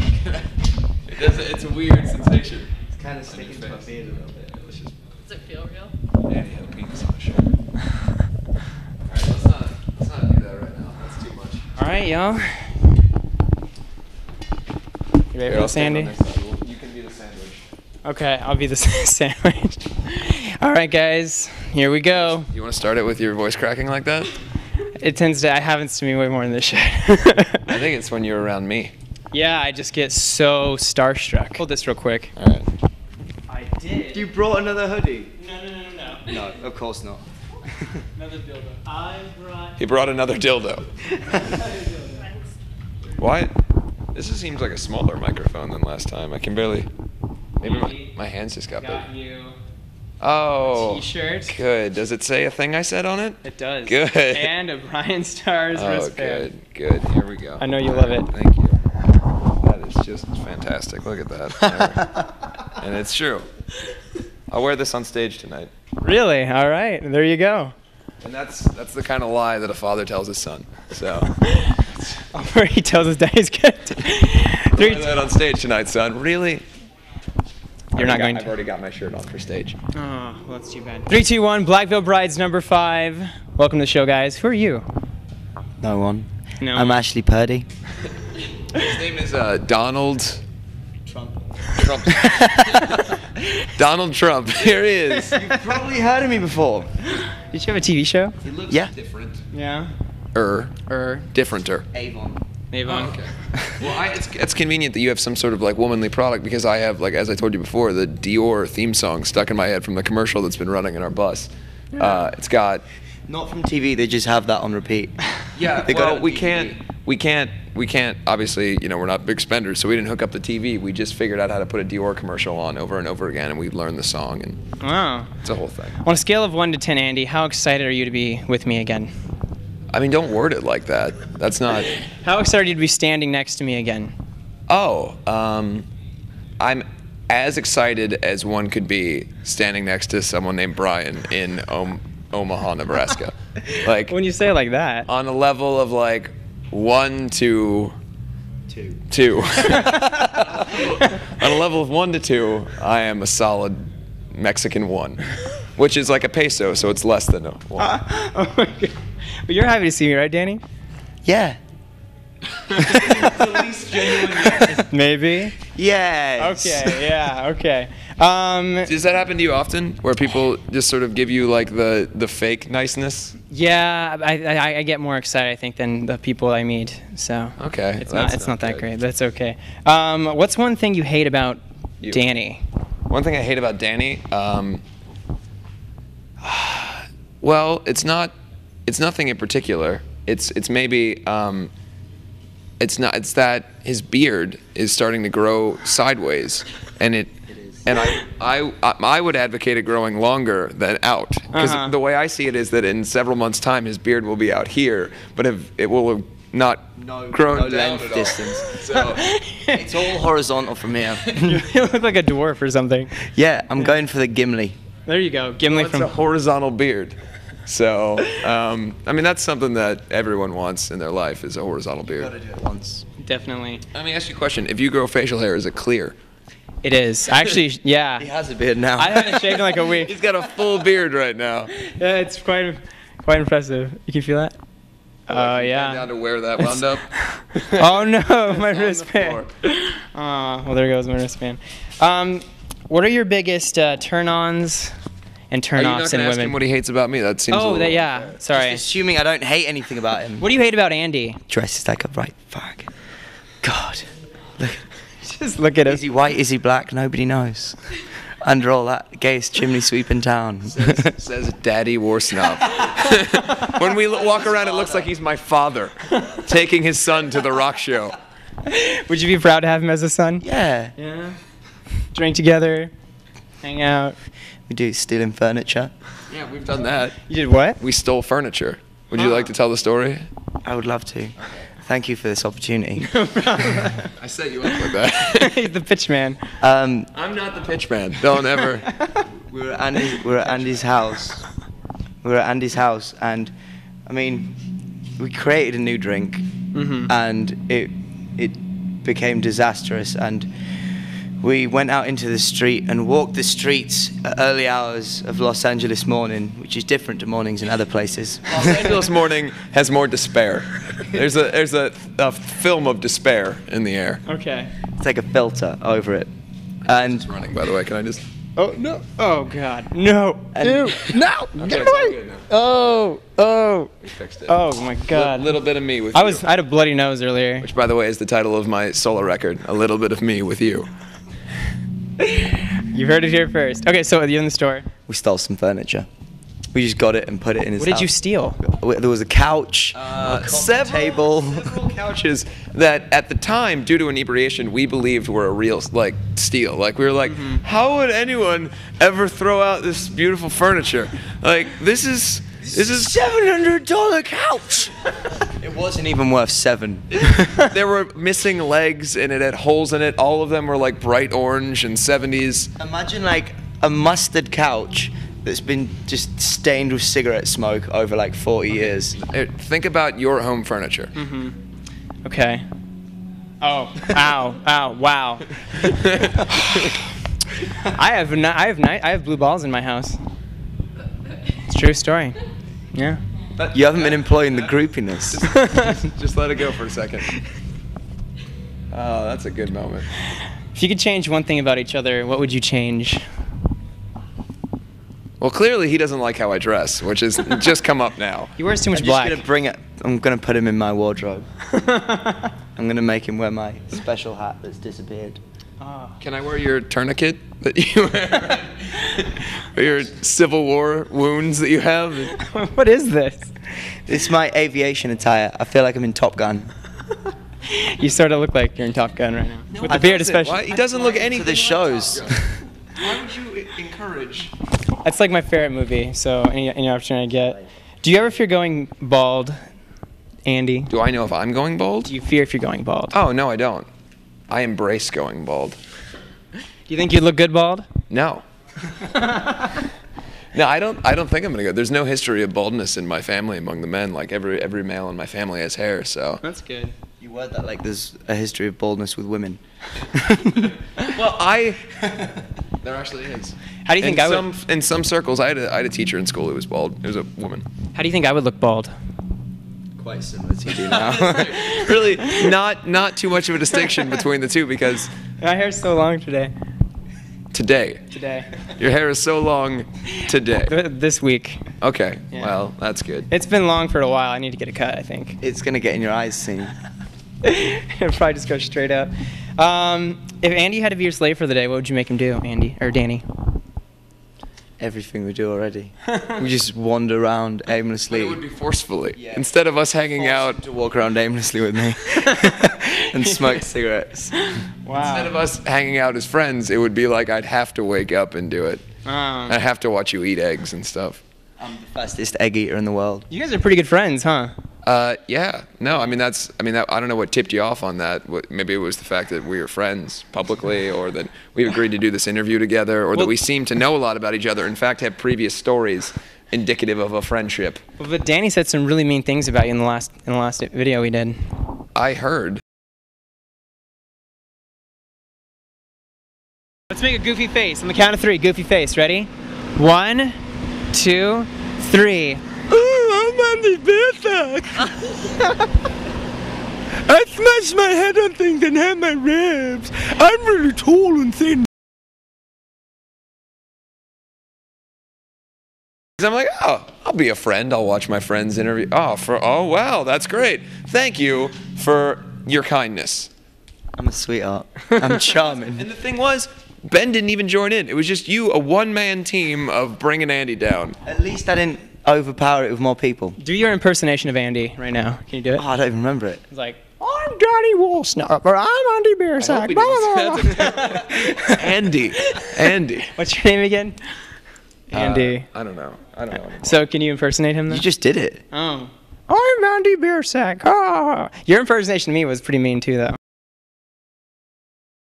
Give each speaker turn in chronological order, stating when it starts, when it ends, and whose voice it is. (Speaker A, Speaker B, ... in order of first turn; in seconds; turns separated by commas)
Speaker A: 1.1-4.9, Speaker B: 2.9-4.6, Speaker A: 6.3-7.5, Speaker A: 9.1-11.7, Speaker C: 11.8-12.8, Speaker C: 15.3-16.1, Speaker A: 15.5-17.6, Speaker C: 18.0-22.5, Speaker A: 22.1-24.4, Speaker C: 25.0-27.7, Speaker A: 27.7-28.9, Speaker C: 29.3-32.3, Speaker A: 32.4-32.7, Speaker C: 33.5-34.3, Speaker B: 34.1-35.3, Speaker C: 35.4-36.4, Speaker B: 36.3-37.2, Speaker C: 38.2-39.8, Speaker A: 39.8-40.9, Speaker C: 41.2-42.3, Speaker A: 43.2-43.5, Speaker A: 44.1-46.9, Speaker A: 47.6-49.1, Speaker C: 47.6-48.1, Speaker C: 48.8-49.6, Speaker A: 50.2-54.5, Speaker C: 50.7-51.6, Speaker C: 53.4-56.5, Speaker A: 55.8-58.8, Speaker C: 57.6-58.3, Speaker A: 59.6-62.2, Speaker A: 62.7-63.5, Speaker A: 64.5-65.7, Speaker C: 66.0-67.7, Speaker A: 68.2-72.1, Speaker C: 71.4-71.8, Speaker C: 72.3-75.1, Speaker A: 74.8-76.6, Speaker C: 77.9-78.5, Speaker A: 78.0-79.8, Speaker C: 79.9-84.8, Speaker B: 85.8-87.7, Speaker C: 86.6-87.0, Speaker A: 88.7-90.4, Speaker B: 91.1-91.5, Speaker A: 91.8-93.2, Speaker C: 92.2-93.7, Speaker A: 93.8-95.4, Speaker B: 95.3-97.0, Speaker C: 97.1-98.3, Speaker A: 98.4-99.4, Speaker C: 99.5-99.9, Speaker A: 100.3-101.9, Speaker C: 100.9-101.3, Speaker B: 101.9-102.4, Speaker C: 102.7-103.2, Speaker A: 102.9-112.8, Speaker B: 113.3-116.8, Speaker A: 115.5-124.6, Speaker C: 124.8-125.3, Speaker A: 125.4-126.0, Speaker C: 126.0-129.1, Speaker A: 129.9-131.9, Speaker C: 132.0-134.1, Speaker A: 134.7-135.9, Speaker A: 136.6-144.2, Speaker C: 143.7-145.1, Speaker A: 145.1-148.0, Speaker B: 148.7-149.0, Speaker A: 149.1-157.9, Speaker C: 149.7-151.3, Speaker C: 157.8-160.6, Speaker B: 161.2-161.6, Speaker A: 162.6-164.8, Speaker B: 162.8-163.5, Speaker B: 164.3-164.5, Speaker C: 164.6-165.6, Speaker B: 165.8-167.1, Speaker C: 166.4-168.9, Speaker A: 168.9-173.3, Speaker C: 173.5-182.6, Speaker A: 177.6-178.8, Speaker A: 183.1-184.8, Speaker A: 186.4-188.3, Speaker A: 188.9-191.7, Speaker A: 192.8-209.3, Speaker B: 197.5-197.9, Speaker C: 201.5-201.9, Speaker B: 207.0-208.7, Speaker C: 208.8-209.8, Speaker B: 209.7-211.7, Speaker C: 211.3-213.2, Speaker B: 213.2-214.8, Speaker C: 215.1-216.1, Speaker A: 215.7-222.3, Speaker B: 222.1-223.1, Speaker C: 223.2-223.8, Speaker A: 223.9-226.2, Speaker C: 226.8-228.3, Speaker B: 228.2-230.5, Speaker C: 229.0-230.1, Speaker A: 230.0-231.7, Speaker C: 231.7-234.6, Speaker C: 235.3-236.1, Speaker A: 235.3-239.5, Speaker C: 236.6-244.9, Speaker C: 245.5-246.6, Speaker A: 245.8-248.4, Speaker C: 247.5-248.8, Speaker B: 248.5-250.5, Speaker C: 250.4-251.4, Speaker B: 251.5-252.9, Speaker B: 253.6-254.8, Speaker C: 255.2-256.0, Speaker B: 255.8-261.1, Speaker A: 260.7-268.2, Speaker B: 264.0-265.1, Speaker C: 266.1-266.4, Speaker C: 268.7-270.4, Speaker B: 270.4-270.9, Speaker C: 271.0-271.4, Speaker C: 272.1-272.9, Speaker C: 273.6-274.2, Speaker B: 274.7-275.9, Speaker A: 276.3-277.2, Speaker C: 277.3-277.8, Speaker A: 277.8-280.3, Speaker B: 280.6-283.1, Speaker C: 283.0-284.1, Speaker A: 284.2-285.6, Speaker C: 284.8-286.6, Speaker B: 286.6-287.1, Speaker A: 287.1-288.9, Speaker C: 288.9-289.2, Speaker B: 289.5-291.4, Speaker B: 292.2-293.5, Speaker B: 294.1-294.6, Speaker B: 295.2-296.5, Speaker C: 296.7-297.1, Speaker B: 297.1-300.5, Speaker B: 301.4-309.1, Speaker A: 308.5-314.2, Speaker C: 314.3-314.7, Speaker B: 315.0-316.3, Speaker B: 316.9-317.3, Speaker A: 316.9-318.2, Speaker C: 318.6-323.9, Speaker B: 320.5-322.1, Speaker A: 321.6-322.5, Speaker A: 324.0-324.6, Speaker C: 324.5-325.6, Speaker A: 325.1-326.4, Speaker C: 326.1-327.7, Speaker A: 327.6-330.9, Speaker C: 332.2-334.9, Speaker B: 335.1-336.1, Speaker B: 336.7-341.8, Speaker C: 337.8-338.6, Speaker A: 339.9-353.2, Speaker C: 347.2-347.6, Speaker B: 352.6-354.9, Speaker B: 355.5-357.4, Speaker A: 357.1-362.7, Speaker B: 362.8-369.2, Speaker A: 369.2-371.1, Speaker C: 371.2-371.6, Speaker C: 372.2-372.7, Speaker C: 373.6-375.9, Speaker A: 375.8-376.9, Speaker C: 377.8-380.2, Speaker C: 381.7-382.4, Speaker C: 382.9-383.2, Speaker A: 383.6-387.4, Speaker B: 383.7-385.5, Speaker C: 385.5-386.0, Speaker A: 388.9-390.1, Speaker C: 390.8-393.2, Speaker A: 395.4-398.5, Speaker C: 398.6-399.4, Speaker B: 398.9-401.5, Speaker C: 401.7-402.5, Speaker B: 402.8-405.4, Speaker C: 405.8-406.2, Speaker A: 406.2-412.4, Speaker C: 412.3-413.5, Speaker B: 414.1-416.7, Speaker C: 417.6-421.1, Speaker A: 419.7-422.4, Speaker B: 419.9-420.3, Speaker B: 420.9-422.6, Speaker A: 423.0-424.5, Speaker C: 425.0-429.6, Speaker C: 430.5-430.9, Speaker A: 430.9-432.1, Speaker C: 432.1-433.1, Speaker A: 433.1-433.9, Speaker A: 434.5-435.8, Speaker C: 436.9-437.9, Speaker A: 438.1-438.4, Speaker C: 439.0-439.8, Speaker A: 440.5-446.4, Speaker C: 446.4-446.9, Speaker B: 447.2-450.7, Speaker A: 451.0-452.0, Speaker B: 452.0-452.3, Speaker A: 452.8-457.6, Speaker C: 453.9-454.5, Speaker C: 457.9-458.9, Speaker B: 460.0-461.6, Speaker A: 460.7-465.1, Speaker C: 461.7-462.5, Speaker C: 465.4-466.5, Speaker A: 467.5-468.0, Speaker C: 468.1-468.5, Speaker A: 468.6-470.7, Speaker C: 470.7-471.6, Speaker A: 471.8-473.3, Speaker C: 473.3-475.4, Speaker B: 475.4-476.8, Speaker C: 477.4-483.2, Speaker B: 484.8-488.4, Speaker C: 486.1-486.4, Speaker A: 488.1-490.6, Speaker B: 489.2-489.4, Speaker B: 490.2-494.6, Speaker C: 492.2-493.6, Speaker C: 494.3-495.4, Speaker A: 494.9-498.9, Speaker C: 499.1-499.6, Speaker A: 499.5-501.2, Speaker B: 501.6-503.3, Speaker C: 503.3-504.5, Speaker A: 504.8-517.8, Speaker C: 518.0-521.5, Speaker A: 522.0-522.6, Speaker C: 526.9-530.4, Speaker C: 530.9-532.4, Speaker B: 532.7-535.1, Speaker B: 536.9-541.7, Speaker A: 546.2-553.3, Speaker B: 554.0-555.9, Speaker A: 555.6-561.0, Speaker B: 561.0-563.4, Speaker C: 563.4-565.6, Speaker B: 565.5-566.4, Speaker C: 566.5-571.6, Speaker A: 569.4-573.1, Speaker C: 572.2-574.1, Speaker C: 574.9-575.5, Speaker A: 574.9-576.8, Speaker C: 576.6-577.9, Speaker B: 577.7-578.4, Speaker C: 578.5-583.2